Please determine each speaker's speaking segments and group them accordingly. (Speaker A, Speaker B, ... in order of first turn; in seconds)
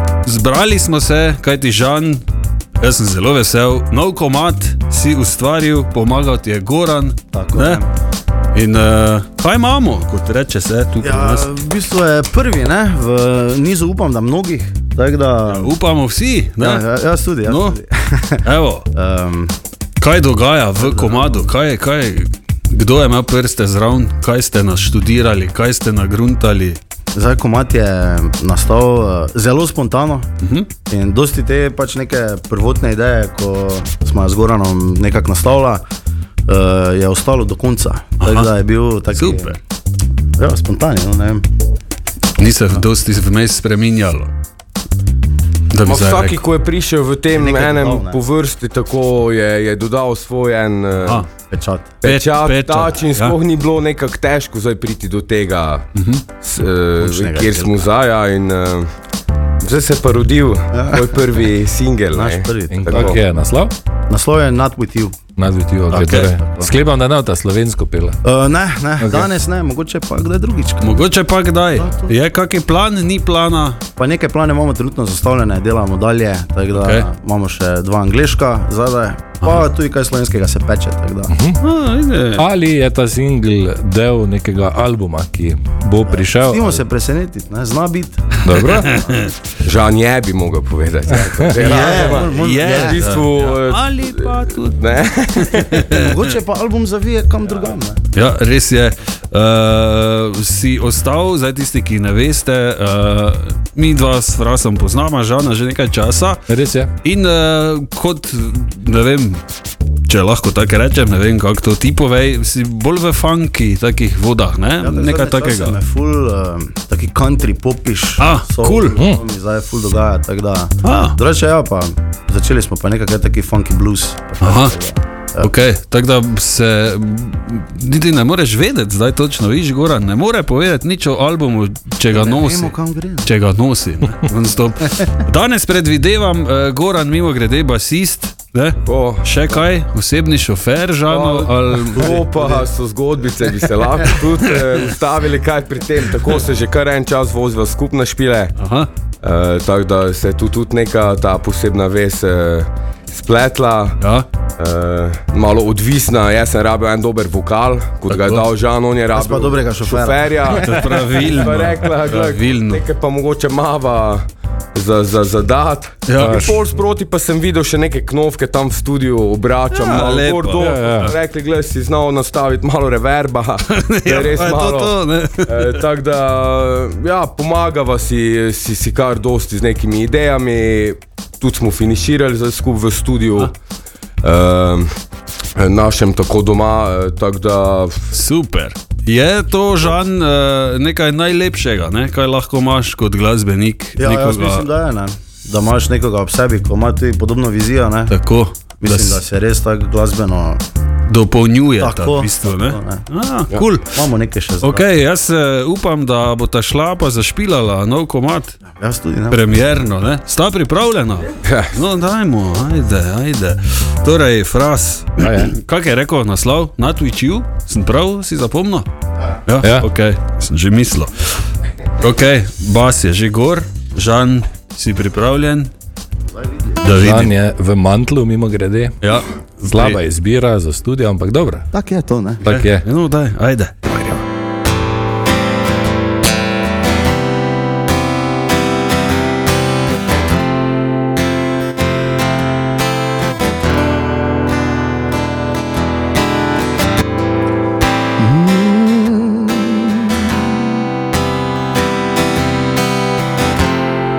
Speaker A: 0.2-2.2, 2.8-7.8, 8.5-11.5, 15.5-16.9, 17.4-17.8, 18.4-18.9, 20.0-26.8, 30.4-30.7, 38.2-38.5, 39.1-39.6, 42.4-44.3, 45.7-46.4, 52.0-53.4, 56.0-56.2, 65.9-66.3, 70.8-73.8, 76.8-77.1, 81.6-82.4, 88.6-89.3, 91.9-96.3, 98.1-106.4, 107.0-109.4, 110.1-115.8, 118.2-119.0, 120.8-121.2, 124.4-124.8, 125.4-142.2, 148.6-148.9, 154.0-154.3, 158.1-158.4, 160.5-162.8, 166.1-166.6, 169.7-171.1, 173.7-175.8, 188.1-194.7, 198.1-199.2, 201.1-203.9, 204.6-208.6, 209.3-218.9, 219.5-221.1, 221.9-225.7, 226.8-227.3, 229.0-230.0, 232.5-234.2
Speaker B: 7.3-7.9, 11.0-15.8, 16.6-19.5, 20.8-21.5, 27.1-30.3, 30.9-35.8, 36.5-39.6, 40.4-41.5, 47.3-48.2, 51.5-52.0, 57.0-57.9, 60.7-61.3, 62.1-63.2, 64.1-65.2, 65.9-66.7, 68.2-71.1, 71.7-72.2, 74.0-81.3, 86.1-88.4, 91.6-93.0, 95.9-98.0, 114.8-125.5, 132.1-133.3, 141.9-142.7, 159.1-160.5, 194.0-198.1, 198.8-200.6, 201.8-203.1, 203.9-204.9, 208.8-209.4, 226.4-226.8, 231.7-232.4, 248.2-250.6
Speaker C: 45.8-51.3, 52.0-55.9, 56.4-58.9, 59.6-63.2, 89.6-96.2, 138.8-139.7, 141.1-148.6, 149.2-154.0, 154.6-183.5, 184.2-184.9, 185.6-188.1, 211.4-211.7
Speaker D: 62.7-63.7, 65.4-68.2, 69.0-69.3, 81.3-81.6, 82.4-86.8, 88.4-89.0, 91.2-91.5, 106.5-106.9, 166.2-166.6, 170.6-171.1, 215.2-215.5, 219.6-219.9, 227.0-229.0, 229.7-231.7, 232.4-232.9